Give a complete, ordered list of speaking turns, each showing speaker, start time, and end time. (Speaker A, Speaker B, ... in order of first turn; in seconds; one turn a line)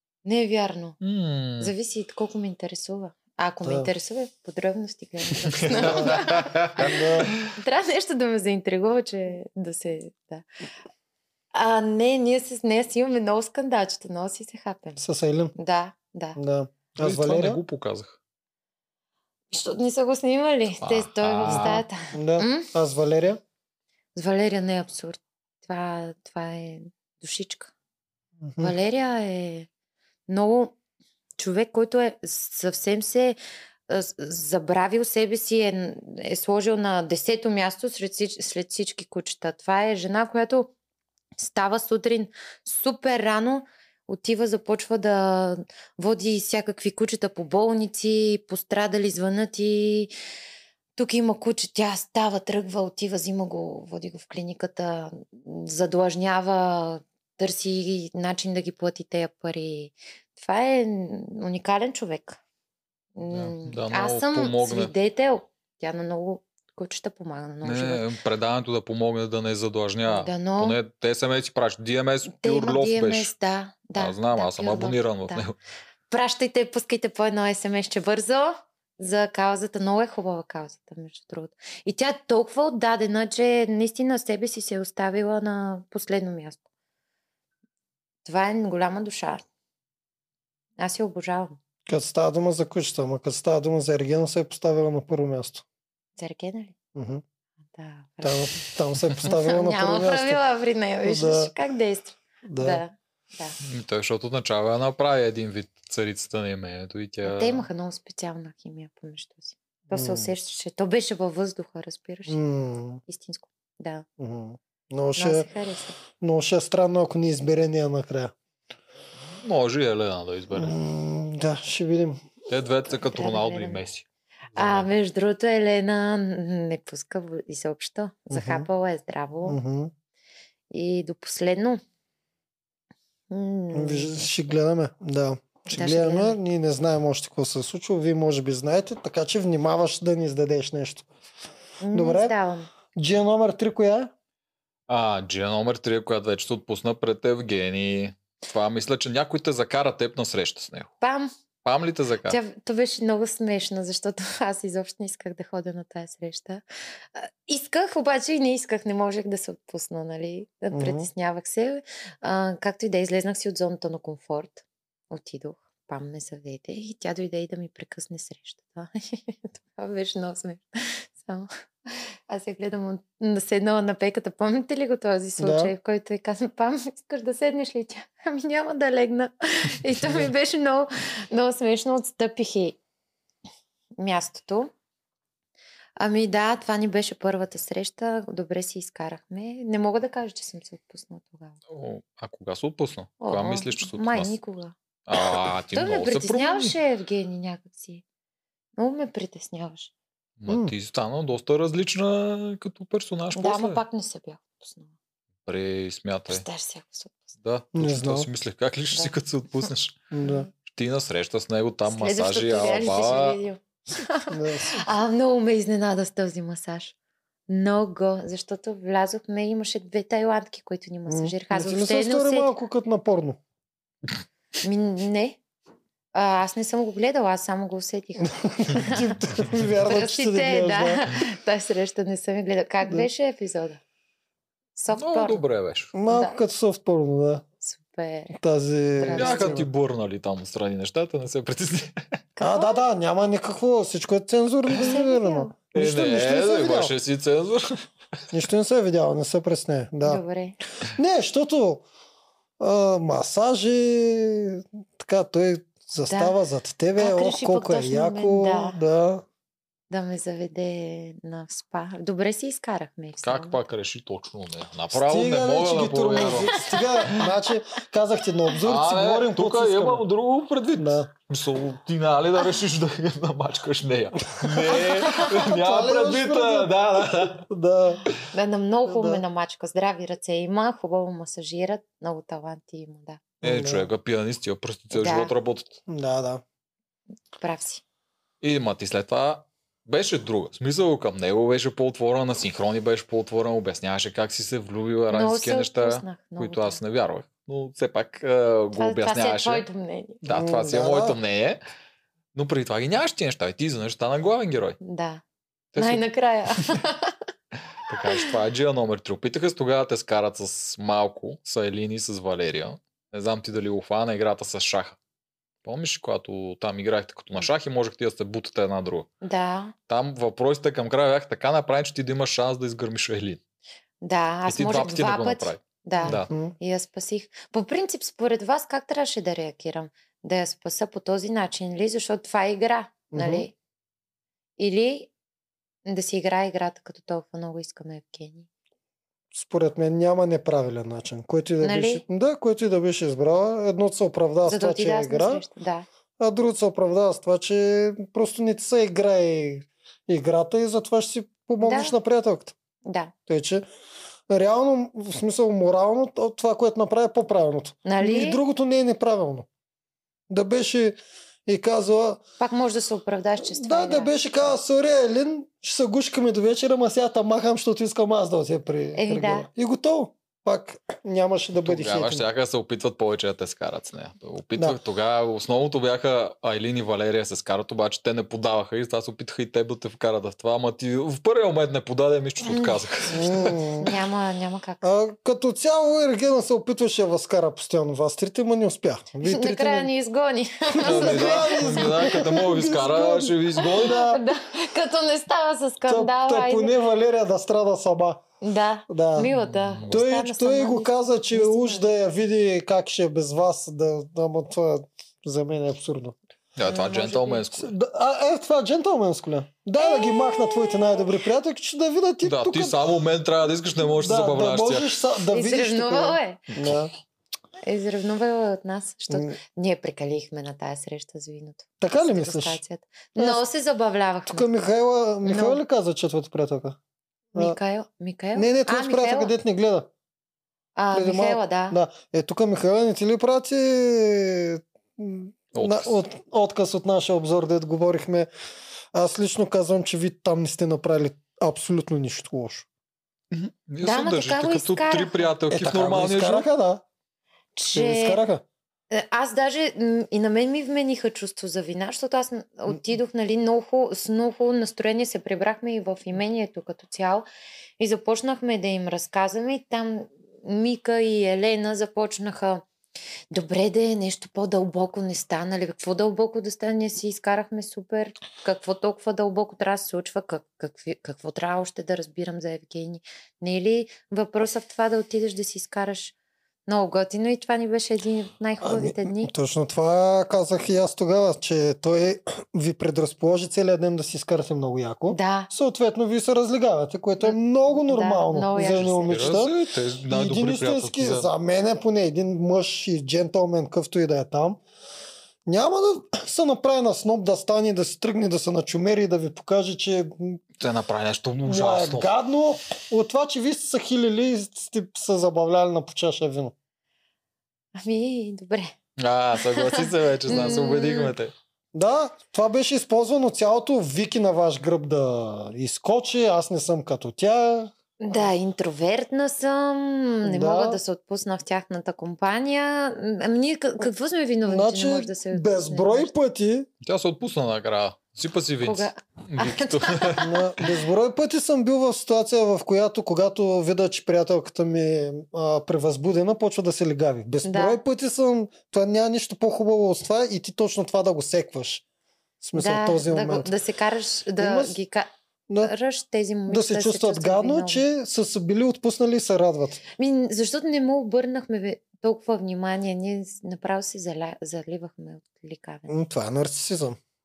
Speaker A: 0.2-1.0
Speaker B: 1.0-1.7
Speaker A: 1.6-10.4
Speaker C: 3.6-3.9
Speaker B: 5.6-7.4
Speaker C: 5.8-6.2
Speaker C: 6.8-7.3
Speaker A: 11.5-15.0
Speaker C: 15.0-15.5
Speaker A: 15.6-16.4
Speaker C: 16.4-17.6
Speaker B: 17.0-18.2
Speaker A: 19.5-22.7
Speaker B: 20.8-21.8
Speaker C: 21.5-23.4
Speaker A: 24.1-27.7
Speaker C: 28.4-28.7
Speaker A: 28.6-29.7
Speaker A: 30.3-30.7
Speaker A: 31.4-40.7
Speaker A: 41.4-50.1
Speaker A: 51.0-62.4
Speaker A: 63.1-68.0
Speaker B: 63.3-64.9
Speaker B: 67.6-73.3
Speaker A: 70.1-70.8
Speaker A: 72.3-75.5
Speaker B: 74.0-75.5
Speaker A: 76.1-86.6
Speaker A: 88.2-89.4
Speaker A: 90.8-91.6
Speaker C: 91.9-95.6
Speaker A: 96.2-96.7
Speaker C: 96.9-97.2
Speaker A: 97.7-98.6
Speaker C: 98.2-100.4
Speaker A: 99.2-103.5
Speaker C: 101.0-101.5
Speaker C: 102.4-102.8
Speaker B: 103.6-107.7
Speaker A: 107.2-112.4
Speaker C: 109.9-110.3
Speaker C: 112.3-113.0
Speaker A: 113.1-114.0
Speaker C: 114.2-115.5
Speaker A: 115.2-116.0
Speaker C: 116.2-118.3
Speaker B: 119.4-120.8
Speaker C: 120.5-122.2
Speaker B: 122.5-124.9
Speaker A: 123.1-123.8
Speaker A: 124.5-129.6
Speaker C: 128.3-128.7
Speaker C: 129.4-129.9
Speaker A: 130.7-131.8
Speaker A: 133.3-134.2
Speaker C: 133.7-141.1
Speaker A: 135.7-136.4
Speaker A: 141.8-142.7
Speaker C: 141.9-142.3
Speaker C: 142.9-144.1
Speaker B: 144.9-150.9
Speaker A: 151.0-151.3
Speaker B: 151.6-152.4
Speaker A: 152.2-156.6
Speaker A: 157.1-182.8
Speaker C: 160.7-161.1
Speaker C: 175.4-175.7
Speaker A: 184.0-184.7
Speaker A: 186.0-191.6
Speaker B: 191.7-194.3
Speaker A: 193.2-194.7
Speaker B: 195.1-196.8
Speaker A: 195.7-198.0
Speaker A: 198.8-199.9
Speaker B: 200.4-203.8
Speaker C: 200.5-200.7
Speaker A: 203.3-204.9
Speaker B: 205.4-206.4
Speaker A: 206.3-207.2
Speaker B: 207.4-210.1
Speaker C: 207.7-208.3
Speaker C: 210.1-210.5
Speaker A: 210.2-210.5
Speaker B: 210.6-213.4
Speaker A: 211.8-216.9
Speaker C: 214.3-214.8
Speaker A: 217.5-222.5
Speaker C: 221.1-223.4
Speaker A: 224.6-225.4
Speaker A: 226.1-229.1
Speaker C: 228.2-231.0
Speaker A: 229.8-233.8
Speaker A: 234.7-235.4
Speaker B: 234.9-235.9
Speaker C: 235.9-237.4
Speaker A: 236.1-236.4
Speaker A: 237.6-238.4
Speaker C: 238.3-239.7
Speaker A: 239.0-239.6
Speaker B: 239.1-242.0
Speaker A: 242.4-242.8
Speaker C: 242.4-246.9
Speaker A: 244.7-245.5
Speaker B: 245.7-247.8
Speaker C: 248.3-250.2
Speaker A: 250.0-250.6
Speaker C: 250.9-251.8
Speaker C: 252.6-259.2
Speaker A: 256.1-256.4
Speaker A: 257.0-258.8
Speaker A: 259.9-263.6
Speaker B: 263.2-267.2
Speaker C: 264.9-270.0
Speaker A: 266.6-267.2
Speaker B: 268.6-277.4
Speaker C: 270.8-271.1
Speaker C: 274.4-278.0
Speaker A: 278.3-283.2
Speaker C: 278.9-279.2
Speaker C: 283.4-283.9
Speaker B: 283.4-285.8
Speaker A: 284.9-285.3
Speaker C: 285.9-286.4
Speaker A: 287.4-287.8
Speaker B: 288.4-299.6
Speaker A: 295.1-296.8
Speaker A: 298.7-300.2
Speaker B: 300.2-301.6
Speaker C: 300.3-301.2
Speaker B: 302.3-304.8
Speaker A: 304.8-305.2
Speaker B: 305.7-306.0
Speaker A: 305.8-307.2
Speaker B: 307.9-315.0
Speaker B: 315.6-319.1
Speaker A: 319.2-319.7
Speaker B: 319.9-323.4
Speaker A: 324.0-333.5
Speaker B: 324.5-326.3
Speaker C: 326.0-326.5
Speaker C: 333.1-333.4
Speaker A: 334.6-335.1
Speaker A: 335.8-338.5
Speaker C: 339.3-345.4
Speaker A: 341.6-342.0
Speaker A: 344.4-345.9
Speaker C: 346.2-352.5
Speaker A: 351.6-351.9
Speaker A: 352.8-353.1
Speaker C: 353.3-353.6
Speaker C: 354.3-359.5
Speaker A: 357.8-358.4
Speaker C: 360.3-362.2
Speaker A: 362.4-364.5
Speaker C: 363.4-372.2
Speaker A: 368.9-369.5
Speaker B: 371.6-383.6
Speaker A: 382.4-382.8
Speaker C: 383.1-383.9
Speaker A: 383.8-384.8
Speaker C: 384.8-389.9
Speaker A: 389.2-392.4
Speaker C: 390.7-394.2
Speaker B: 390.8-394.1
Speaker A: 393.6-396.7
Speaker C: 395.9-398.2
Speaker A: 398.4-401.9
Speaker C: 398.9-399.3
Speaker B: 399.4-400.0
Speaker C: 399.9-406.1
Speaker B: 406.6-407.7
Speaker A: 406.6-407.4
Speaker C: 407.5-412.8
Speaker A: 409.8-411.1
Speaker B: 412.2-414.9
Speaker C: 413.8-416.9
Speaker A: 415.2-416.4
Speaker A: 417.6-424.5
Speaker C: 419.1-419.4
Speaker C: 421.8-422.6
Speaker C: 423.1-423.4
Speaker C: 424.3-426.8
Speaker A: 425.2-425.6
Speaker A: 427.3-429.3
Speaker C: 428.3-429.9
Speaker A: 430.8-431.8
Speaker C: 430.9-438.3
Speaker B: 435.5-436.0
Speaker C: 438.9-442.7
Speaker B: 443.3-446.4
Speaker A: 443.8-445.3
Speaker C: 445.5-446.8
Speaker A: 447.6-448.2
Speaker C: 447.7-448.4
Speaker A: 448.9-457.2
Speaker A: 457.8-462.6
Speaker A: 463.3-476.1
Speaker A: 476.7-479.3
Speaker C: 478.6-489.6
Speaker A: 485.1-485.5
Speaker A: 487.2-489.5
Speaker B: 488.6-491.3
Speaker C: 490.1-494.6
Speaker C: 495.4-500.4
Speaker B: 500.6-502.1
Speaker C: 501.4-506.5
Speaker A: 507.8-508.7
Speaker B: 509.0-511.3
Speaker A: 509.4-511.1
Speaker C: 511.7-518.1
Speaker A: 518.0-526.1
Speaker C: 520.2-520.8
Speaker C: 524.5-526.7
Speaker B: 526.8-530.3
Speaker A: 528.6-530.3
Speaker C: 530.2-541.8
Speaker A: 537.4-537.8
Speaker C: 542.4-543.5
Speaker A: 542.5-545.1
Speaker C: 544.4-544.8
Speaker A: 545.6-547.8
Speaker C: 546.5-549.8
Speaker A: 550.0-555.9
Speaker C: 555.9-557.0